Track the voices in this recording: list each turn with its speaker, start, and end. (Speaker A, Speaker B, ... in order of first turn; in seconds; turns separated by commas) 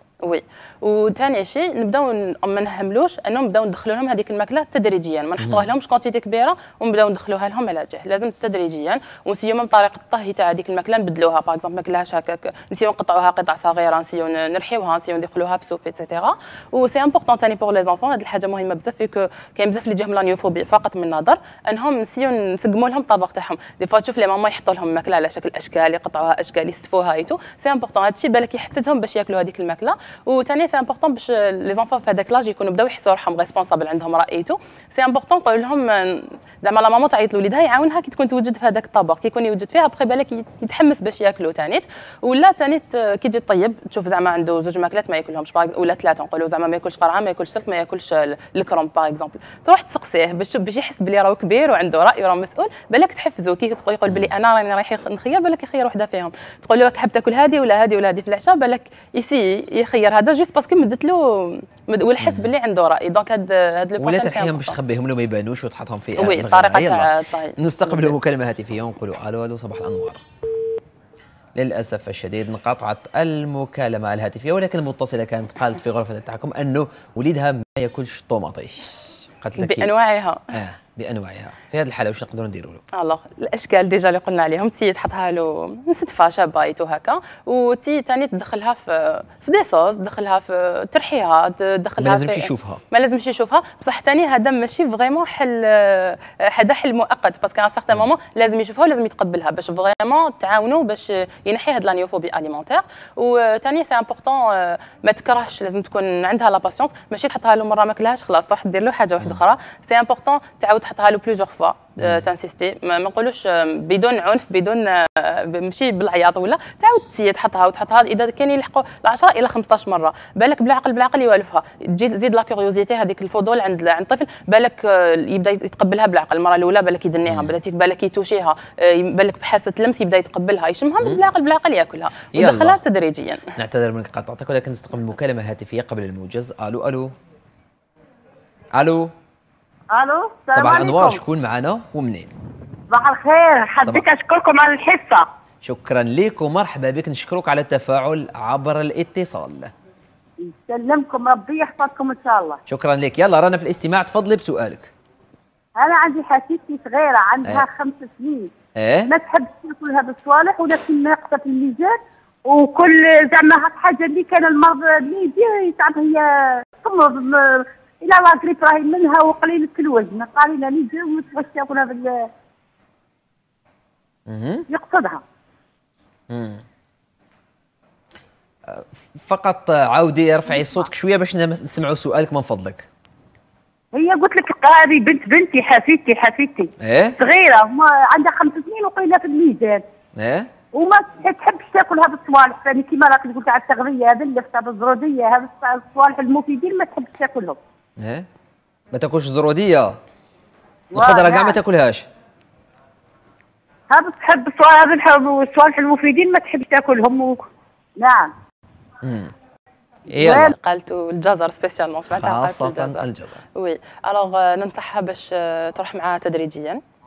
Speaker A: 0.2-64.8, Speaker B: 62.2-62.5, Speaker B: 64.0-70.2, Speaker A: 66.2-68.1, Speaker B: 71.6-79.9, Speaker A: 79.6-80.4, Speaker B: 80.5-82.8, Speaker A: 82.9-133.6, Speaker B: 92.0-92.8, Speaker B: 112.0-112.3, Speaker B: 127.3-127.6, Speaker B: 132.3-132.8, Speaker B: 133.6-137.1, Speaker B: 138.8-139.1, Speaker C: 139.9-141.2, Speaker B: 140.5-142.3, Speaker C: 142.9-145.3, Speaker B: 145.6-149.7, Speaker C: 150.4-152.6, Speaker B: 152.7-154.9, Speaker C: 155.8-158.5, Speaker B: 158.8-159.1, Speaker C: 159.1-172.3, Speaker B: 174.3-174.7, Speaker C: 174.7-175.2, Speaker B: 176.3-176.6, Speaker B: 178.7-182.9, Speaker C: 183.9-189.8, Speaker B: 186.8-187.2, Speaker B: 190.2-190.5, Speaker C: 190.7-197.6, Speaker B: 198.0-198.3, Speaker B: 198.9-200.0, Speaker C: 200.9-201.6, Speaker B: 200.9-202.1, Speaker C: 203.9-208.3, Speaker B: 209.0-209.3, Speaker B: 210.1-210.5, Speaker A: 210.2-216.8, Speaker C: 210.2-210.5, Speaker B: 212.2-213.4